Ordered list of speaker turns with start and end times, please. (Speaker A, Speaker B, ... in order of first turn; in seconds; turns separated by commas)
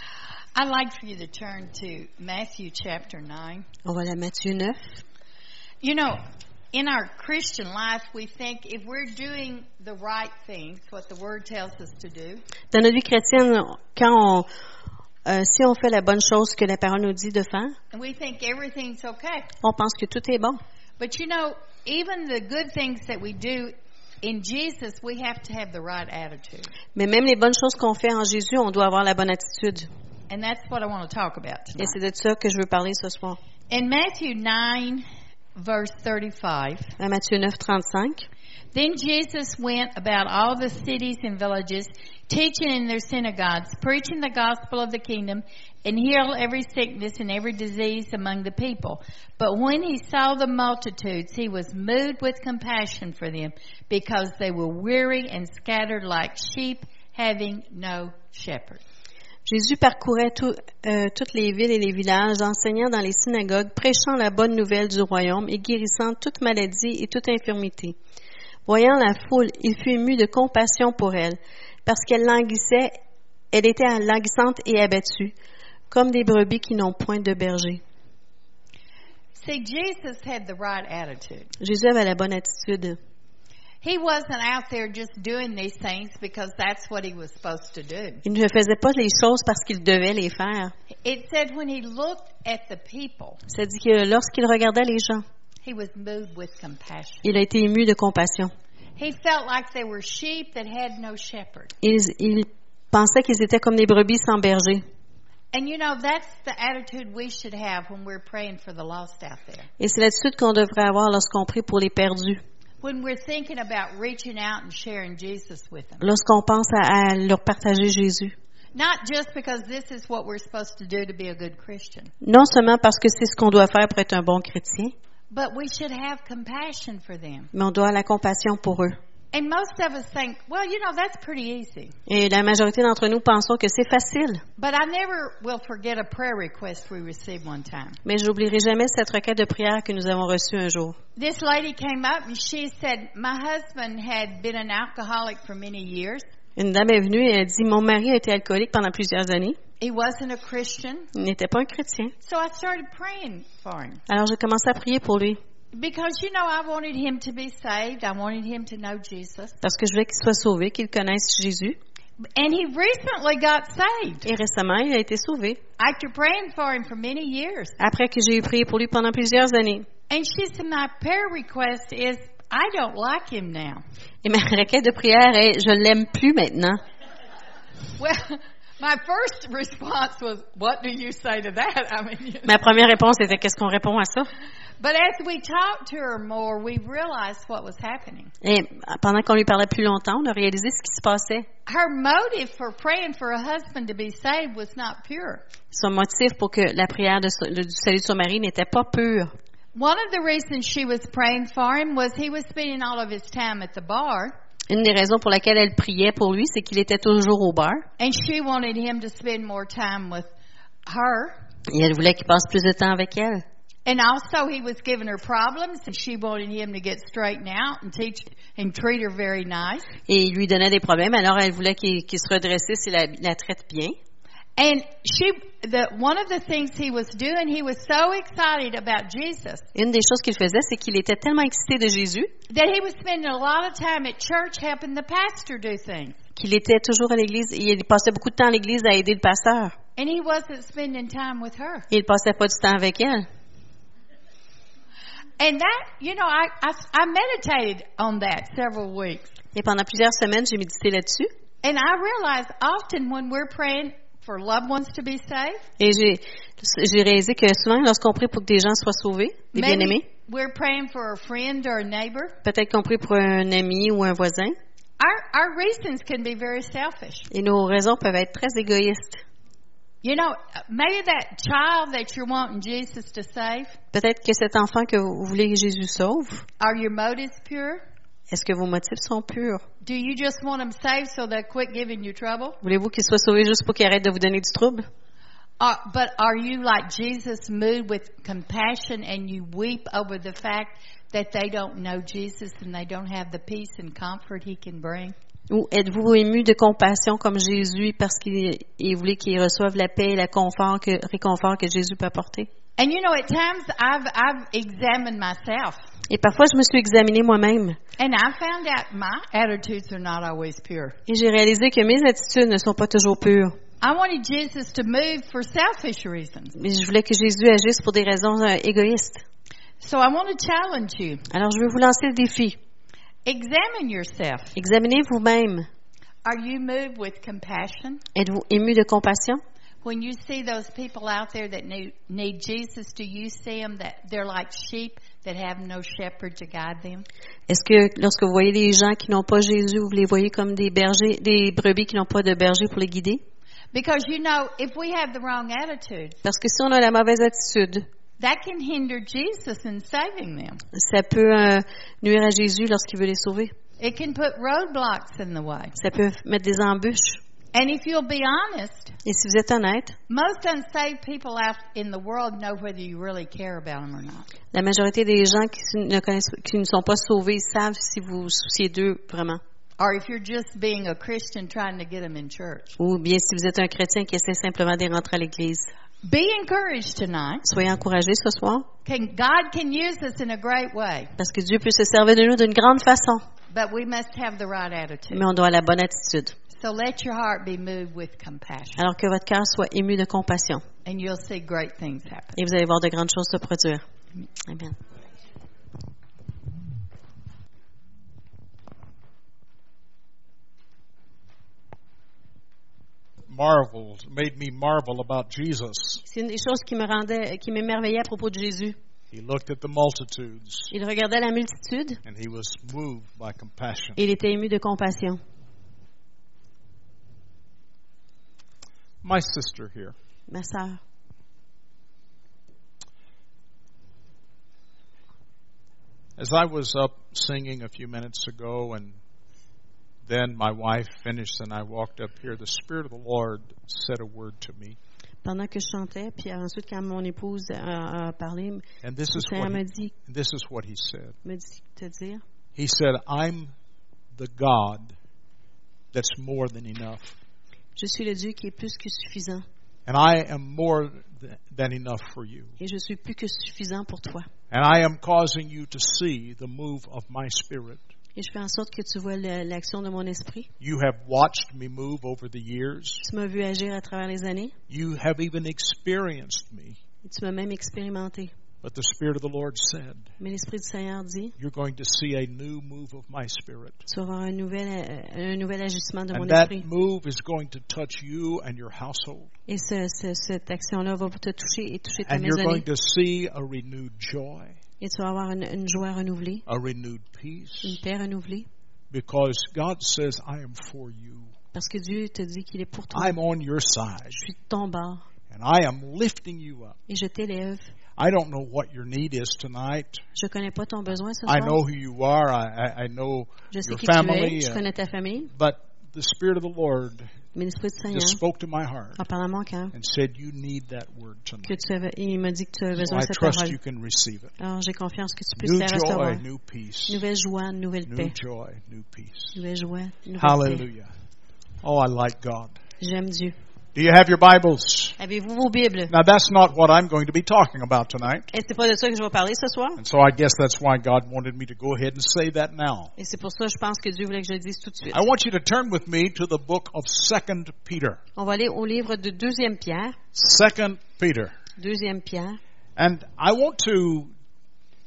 Speaker A: 0.6-3.7, Speaker B: 3.9-4.8, Speaker A: 5.8-6.2, Speaker A: 6.7-12.4, Speaker B: 12.7-14.5, Speaker B: 15.2-17.8, Speaker A: 17.9-19.5, Speaker B: 19.6-20.6, Speaker A: 21.0-26.7, Speaker B: 26.9-29.9, Speaker A: 30.3-32.0, Speaker B: 31.8-33.4, Speaker A: 33.7-36.9, Speaker B: 37.0-38.3, Speaker A: 38.7-58.8, Speaker B: 59.5-68.0, Speaker B: 68.7-72.9, Speaker B: 73.5-75.3, Speaker B: 75.9-77.8, Speaker A: 79.4-81.5, Speaker B: 81.6-83.0, Speaker A: 83.8-88.2, Speaker B: 88.2-90.7, Speaker A: 91.0-93.4, Speaker B: 93.5-95.2, Speaker A: 95.6-97.2, Speaker B: 97.2-98.5, Speaker A: 99.0-101.7, Speaker B: 101.8-104.8, Speaker A: 105.5-109.7, Speaker B: 109.8-112.4, Speaker A: 112.8-116.0, Speaker B: 116.0-118.3, Speaker A: 118.8-122.1, Speaker B: 122.2-125.0, Speaker A: 125.3-127.5, Speaker B: 127.5-129.0, Speaker A: 129.3-131.9, Speaker B: 132.1-134.4, Speaker A: 134.6-138.0, Speaker B: 138.0-141.0, Speaker A: 141.2-146.2, Speaker B: 146.6-149.6, Speaker A: 149.8-151.1, Speaker B: 151.1-152.1, Speaker A: 152.2-154.0, Speaker B: 154.1-155.4, Speaker A: 155.7-159.6, Speaker B: 159.6-161.8, Speaker A: 162.2-164.3, Speaker B: 164.2-165.6, Speaker A: 165.8-167.8, Speaker B: 167.8-169.9, Speaker A: 170.1-173.8, Speaker B: 174.2-176.8, Speaker A: 178.0-182.6, Speaker B: 182.5-184.3, Speaker A: 184.8-188.3, Speaker B: 188.4-191.5, Speaker A: 191.7-195.4, Speaker B: 195.7-199.3, Speaker A: 199.8-204.3, Speaker B: 204.7-207.9, Speaker A: 208.0-210.3, Speaker A: 210.9-211.4, Speaker B: 211.7-213.4, Speaker A: 213.9-219.9, Speaker B: 220.1-223.9, Speaker A: 224.6-229.7, Speaker B: 229.8-232.3, Speaker A: 232.5-236.2, Speaker B: 236.4-239.8, Speaker A: 240.0-241.9, Speaker B: 241.9-243.3, Speaker A: 245.4-249.3, Speaker B: 249.5-251.3, Speaker A: 251.6-255.6, Speaker B: 255.8-260.0, Speaker A: 259.5-262.4, Speaker B: 262.4-264.6, Speaker A: 265.0-267.3, Speaker B: 267.3-269.2, Speaker A: 270.0-273.8, Speaker B: 273.9-276.4, Speaker A: 276.6-277.8, Speaker B: 278.3-279.6, Speaker A: 279.8-282.6, Speaker B: 282.6-284.9, Speaker A: 285.6-295.1, Speaker B: 295.5-302.5, Speaker A: 302.8-305.8, Speaker B: 306.1-307.8, Speaker A: 308.0-311.0, Speaker B: 311.1-313.6, Speaker A: 313.8-316.6, Speaker B: 316.6-319.2, Speaker A: 319.8-321.2, Speaker B: 321.3-322.6, Speaker A: 323.2-324.6, Speaker B: 324.6-325.7, Speaker A: 326.2-328.0, Speaker B: 328.1-329.4, Speaker A: 329.8-337.1, Speaker B: 337.5-343.2, Speaker A: 343.7-346.2, Speaker B: 346.2-347.9, Speaker A: 348.2-350.6, Speaker B: 350.7-353.5, Speaker A: 353.8-355.8, Speaker B: 355.8-357.2, Speaker A: 357.5-359.0, Speaker B: 359.1-360.0, Speaker A: 360.1-364.3, Speaker B: 364.5-369.4, Speaker A: 369.8-372.7, Speaker B: 372.8-375.7, Speaker A: 376.0-377.4, Speaker B: 377.4-378.7, Speaker A: 378.9-381.1, Speaker B: 381.2-383.2, Speaker A: 383.5-385.3, Speaker B: 385.1-386.4, Speaker A: 386.5-388.8, Speaker B: 388.8-390.6, Speaker A: 390.9-392.4, Speaker B: 392.4-393.8, Speaker B: 394.5-394.8, Speaker C: 403.3-406.0, Speaker B: 406.1-408.8, Speaker C: 409.1-410.7, Speaker B: 410.7-412.0, Speaker C: 412.1-414.0, Speaker B: 414.0-415.2, Speaker C: 419.0-419.9, Speaker B: 420.3-420.8, Speaker C: 426.2-429.0, Speaker C: 430.1-434.8, Speaker B: 435.2-439.9, Speaker C: 438.8-441.2, Speaker B: 441.2-442.2, Speaker C: 442.6-443.5, Speaker C: 444.1-444.9, Speaker C: 445.9-447.2, Speaker B: 447.8-449.4, Speaker C: 449.9-452.5, Speaker B: 452.6-454.3, Speaker C: 454.5-457.8, Speaker B: 458.2-460.5, Speaker C: 460.6-463.0, Speaker B: 463.0-464.6, Speaker C: 464.7-466.8, Speaker B: 467.0-468.3, Speaker C: 468.6-470.1, Speaker B: 470.2-471.3, Speaker C: 471.4-473.9, Speaker B: 473.9-476.6, Speaker C: 476.1-479.3, Speaker B: 479.5-482.6, Speaker C: 482.1-484.6, Speaker B: 484.8-486.4, Speaker C: 486.5-487.8, Speaker B: 487.6-488.5, Speaker C: 488.9-491.3, Speaker B: 491.5-493.1, Speaker C: 492.9-494.2, Speaker B: 494.2-495.0, Speaker C: 495.3-496.8, Speaker B: 496.9-497.7, Speaker C: 498.0-500.0, Speaker B: 500.2-501.6, Speaker C: 501.3-504.6, Speaker B: 503.5-505.3, Speaker C: 505.3-507.1, Speaker B: 507.4-508.2, Speaker C: 507.9-509.0, Speaker B: 509.0-509.7, Speaker C: 509.7-511.6, Speaker B: 511.5-513.5, Speaker C: 512.8-514.3, Speaker B: 514.4-516.2, Speaker C: 515.4-517.0, Speaker B: 516.9-518.1, Speaker C: 517.9-519.4, Speaker B: 519.4-520.6, Speaker C: 520.2-520.9, Speaker C: 521.6-522.6, Speaker B: 522.8-523.4, Speaker C: 523.8-525.0, Speaker B: 525.0-525.9, Speaker C: 525.9-528.3, Speaker B: 528.3-529.8, Speaker C: 529.8-532.9, Speaker B: 533.0-535.0, Speaker C: 534.9-538.0, Speaker B: 538.2-540.0, Speaker C: 540.1-541.4, Speaker B: 541.6-542.4, Speaker C: 542.8-544.1